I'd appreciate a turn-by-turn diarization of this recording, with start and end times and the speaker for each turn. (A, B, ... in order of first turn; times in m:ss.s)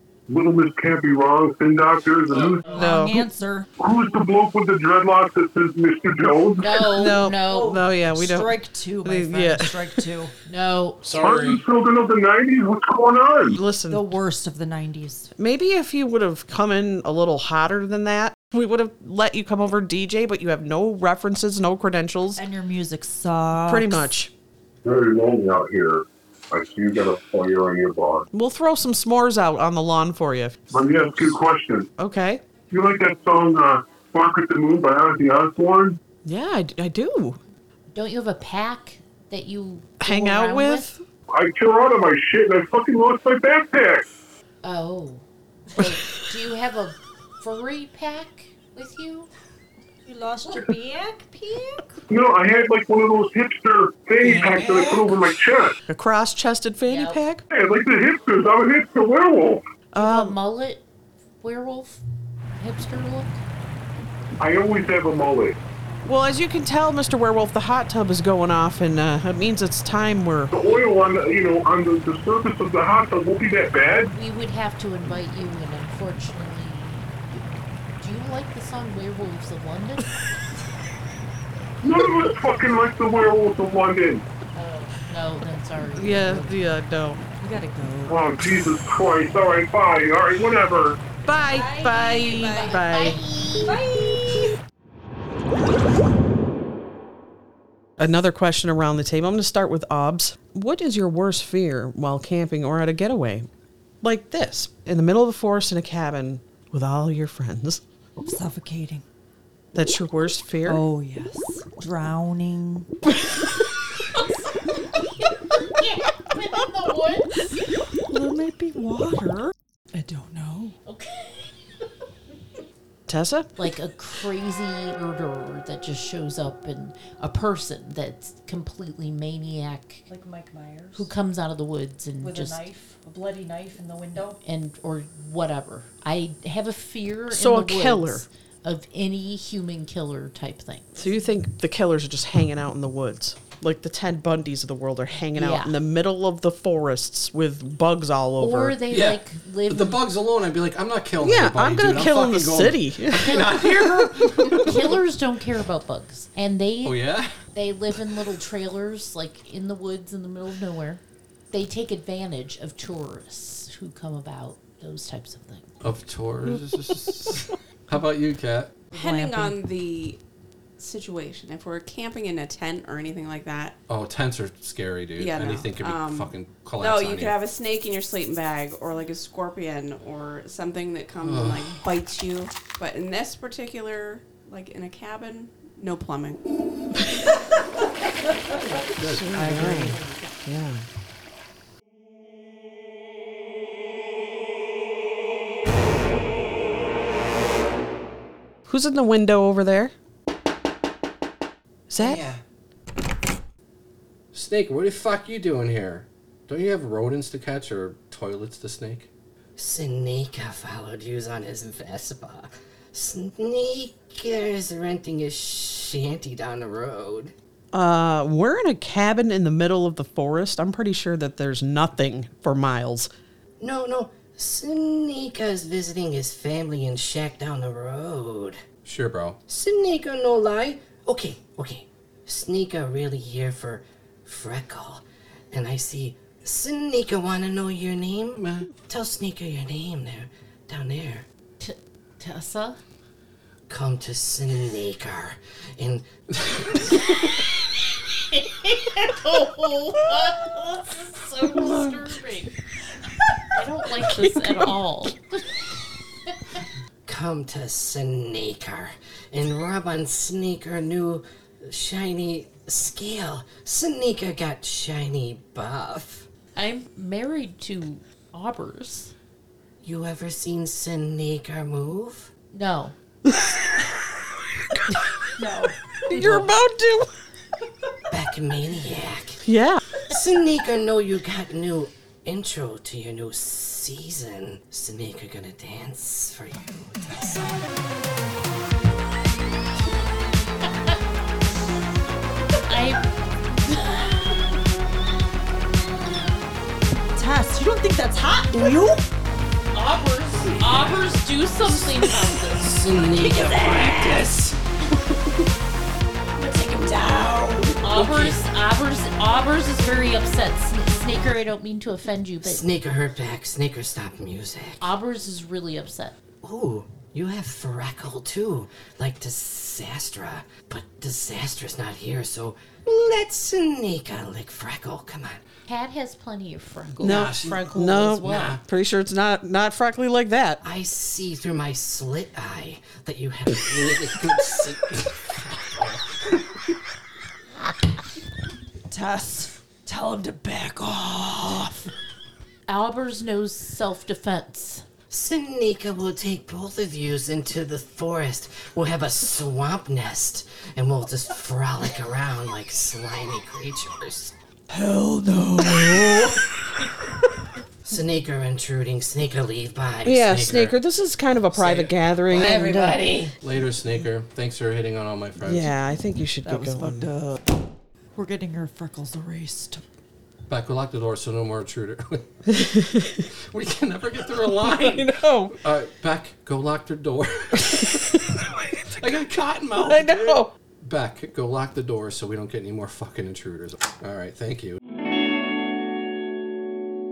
0:00.3-0:02.8 A
0:02.7-0:03.7 B
0:02.7-0:03.3 C
0:03.8-0:06.8 A
0:06.6-0:07.9 D
0:06.9-0:10.0 C
0:07.4-0:10.3 B
0:10.4-0:11.0 D
0:11.0-0:11.6 E
0:11.1-0:13.6 A
0:13.5-0:14.1 C
0:13.8-0:15.3 B
0:15.4-0:22.4 C
0:22.4-0:24.1 B
0:23.6-0:24.3 C
0:24.8-0:28.3 A
0:28.3-0:30.6 C
0:30.7-0:31.9 A
0:32.0-0:32.4 C
0:32.7-0:36.0 A
0:36.2-0:37.4 C
0:37.9-0:40.9 D
0:40.0-0:41.0 C
0:41.3-0:44.0 A
0:44.6-0:49.3 D
0:50.0-0:52.0 B
0:52.1-0:55.8 A
0:54.2-0:55.0 B
0:55.9-0:57.4 C
0:56.8-0:57.2 D
0:57.5-0:59.6 A
0:59.9-1:00.4 C
1:00.0-1:00.8 D
1:01.4-1:02.0 D
1:02.5-1:03.4 D
1:04.4-1:05.6 A
1:06.0-1:10.5 C
1:10.5-1:14.1 A
1:14.1-1:17.5 D
1:18.0-1:20.2 D
1:21.8-1:24.2 A
1:24.5-1:26.6 D
1:26.0-1:28.1 C
1:27.4-1:28.1 B
1:28.1-1:31.0 A
1:31.2-1:33.2 C
1:31.3-1:32.9 B
1:32.6-1:33.8 D
1:33.6-1:34.5 B
1:38.0-1:43.5 C
1:44.0-1:47.8 C
1:48.2-1:49.0 B
1:49.7-1:50.8 C
1:50.6-1:52.9 B
1:55.7-1:57.4 D
1:58.1-2:00.8 B
2:00.8-2:01.6 D
2:03.1-2:03.5 C
2:03.6-2:10.0 D
2:10.1-2:11.1 B
2:10.9-2:12.6 D
2:12.2-2:14.4 B
2:14.4-2:21.0 D
2:17.3-2:18.2 C
2:21.0-2:28.8 C
2:25.3-2:25.8 D
2:28.4-2:30.0 D
2:28.9-2:34.8 E
2:31.2-2:34.5 C
2:33.2-2:33.7 D
2:34.5-2:45.7 D
2:36.8-2:37.3 E
2:45.8-2:48.7 E
2:48.9-2:49.6 B
2:48.9-2:50.2 F
2:50.8-2:53.8 F
2:53.9-2:57.4 E
2:55.2-3:06.4 F
3:01.2-3:01.8 E
3:09.0-3:09.3 E
3:09.1-3:10.8 C
3:09.3-3:10.1 B
3:18.6-3:19.9 C
3:21.9-3:22.2 C
3:22.0-3:22.4 G
3:24.3-3:29.1 E
3:29.6-3:37.3 G
3:37.7-3:43.1 C
3:43.6-3:48.6 G
3:48.8-3:49.4 E
3:49.5-4:01.2 G
3:58.4-3:58.7 E
4:01.6-4:02.8 D
4:03.7-4:06.1 G
4:06.9-4:07.3 D
4:08.3-4:12.5 D
4:13.5-4:15.6 D
4:14.2-4:14.6 C
4:16.3-4:16.6 D
4:17.0-4:26.3 G
4:26.6-4:29.1 D
4:29.8-4:32.3 G
4:32.5-4:32.9 D
4:33.3-4:33.5 C
4:35.4-4:36.5 B
4:36.1-4:37.1 C
4:38.1-4:39.4 G
4:39.4-4:39.8 C
4:40.1-4:47.5 G
4:52.6-4:53.0 D
4:53.6-4:54.4 D
4:57.1-4:59.0 B
4:59.7-5:02.8 D
5:02.6-5:04.6 G
5:03.2-5:04.3 B
5:06.4-5:07.7 B
5:07.2-5:08.4 G
5:07.8-5:12.6 D
5:12.4-5:14.9 G
5:14.8-5:16.1 D
5:16.4-5:25.4 G
5:25.7-5:28.6 D
5:27.0-5:27.6 G
5:27.0-5:30.6 C
5:28.2-5:28.6 G
5:30.6-5:36.0 G
5:38.9-5:41.9 B
5:42.7-5:44.8 D
5:45.1-5:54.3 G
5:54.8-5:56.4 B
5:55.2-5:56.4 C
5:57.8-6:00.7 G
6:00.0-6:03.0 C
6:01.5-6:01.9 E
6:02.3-6:03.3 G
6:02.4-6:03.2 D
6:03.4-6:05.7 E
6:05.4-6:07.1 C
6:06.4-6:07.4 B
6:08.1-6:09.8 B
6:10.5-6:12.4 E
6:12.5-6:13.2 C
6:13.5-6:18.1 E
6:14.4-6:15.6 C
6:17.8-6:18.7 C
6:19.0-6:24.8 E
6:19.8-6:20.5 C